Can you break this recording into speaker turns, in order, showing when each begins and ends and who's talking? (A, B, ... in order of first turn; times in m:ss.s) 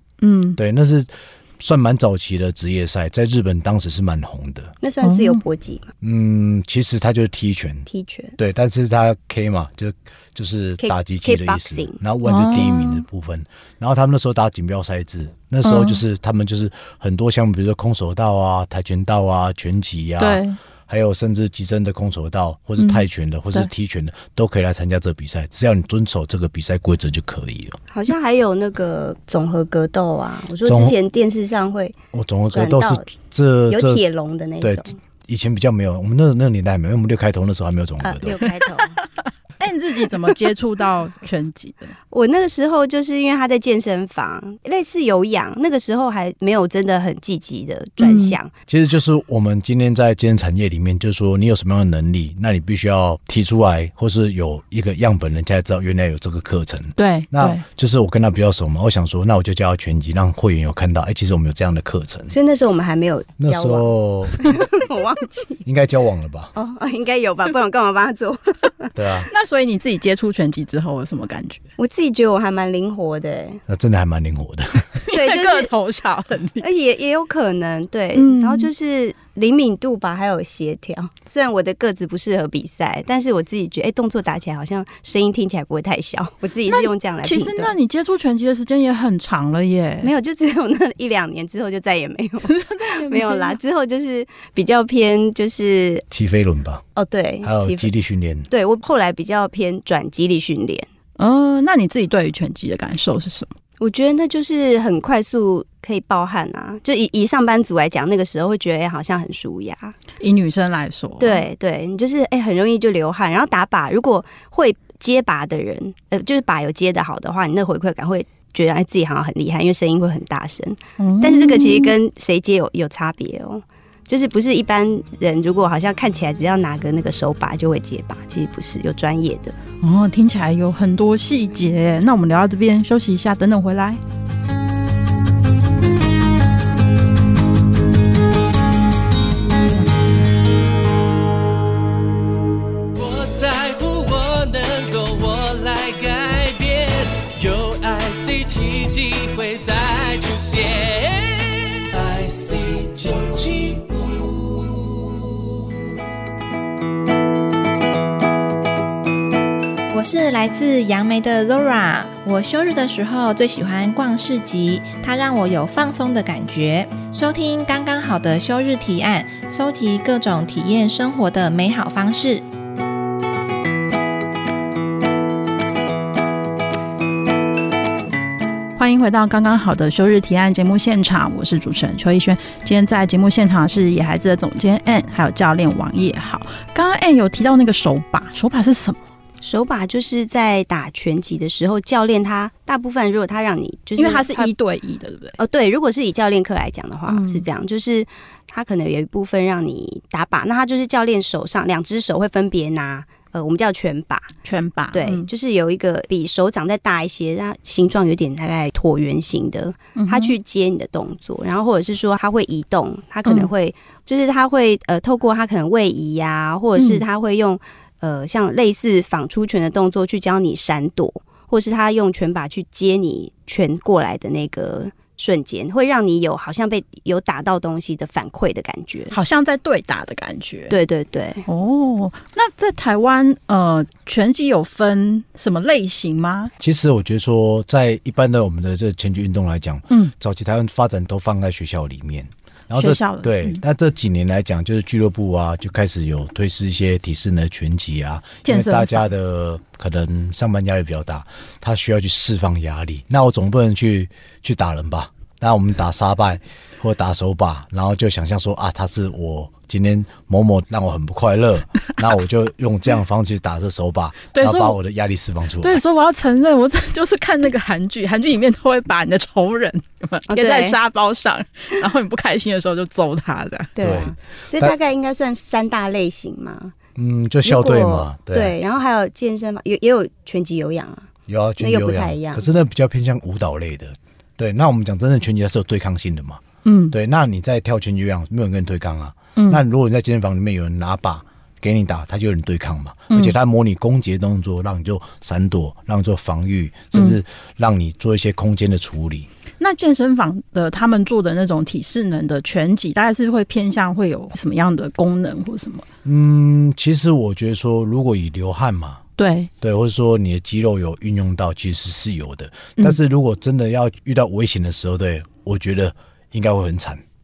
0:00.2-0:00.6 A
0:00.6-0:04.7 B
0:04.8-0:05.9 C
0:05.0-0:05.4 A
0:06.0-0:27.8 B
0:07.9-0:08.4 C
0:10.8-0:12.0 C
0:12.2-0:13.0 A
0:15.6-0:16.0 A
0:20.2-0:20.6 A
0:22.8-0:23.7 A
0:27.9-0:32.0 C
0:30.6-0:31.0 B
0:32.1-0:34.0 B
0:32.5-0:33.1 C
0:33.7-0:35.0 C
0:34.6-0:38.4 B
0:38.0-0:39.0 C
0:39.6-0:41.9 A
0:42.1-0:48.5 C
0:48.0-0:48.4 A
0:48.7-1:02.4 B
0:57.0-0:57.6 A
1:02.3-1:03.9 C
1:03.4-1:04.6 B
1:04.4-1:05.6 C
1:05.6-1:06.5 B
1:06.5-1:08.9 C
1:09.0-1:09.3 B
1:09.3-1:11.6 A
1:11.8-1:13.6 C
1:13.7-1:14.9 B
1:15.0-1:16.6 A
1:15.1-1:15.7 C
1:16.6-1:27.7 C
1:18.1-1:18.7 A
1:26.7-1:30.1 A
1:30.0-1:36.0 C
1:32.5-1:33.6 A
1:36.1-1:36.8 B
1:37.0-1:37.9 C
1:37.4-1:38.5 B
1:38.5-1:40.9 C
1:41.2-1:43.5 A
1:43.8-1:50.0 C
1:50.2-1:51.4 A
1:51.2-2:09.6 C
2:01.0-2:02.0 A
2:09.8-2:14.0 A
2:22.9-2:35.2 D
2:39.9-2:52.5 E
2:58.8-3:09.0 A
3:09.4-3:14.5 C
3:14.0-3:15.4 A
3:15.4-3:24.3 C
3:17.1-3:17.4 A
3:24.4-3:25.3 A
3:24.9-3:49.1 C
3:30.0-3:30.4 A
3:36.8-3:37.0 A
3:49.1-3:50.7 A
3:50.7-3:51.5 C
3:51.5-3:56.5 A
3:56.6-4:25.8 B
4:02.7-4:03.6 A
4:08.4-4:09.1 A
4:24.3-4:24.8 A
4:25.6-4:33.7 A
4:30.3-4:30.8 C
4:33.8-4:36.8 C
4:33.8-4:34.8 B
4:37.0-4:38.6 B
4:37.4-4:42.4 C
4:41.3-4:59.3 B
4:46.6-4:47.0 A
4:49.4-4:49.6 A
4:56.9-4:57.2 A
4:59.6-5:05.8 A
5:06.0-5:09.0 B
5:09.2-5:09.5 A
5:09.6-5:17.0 B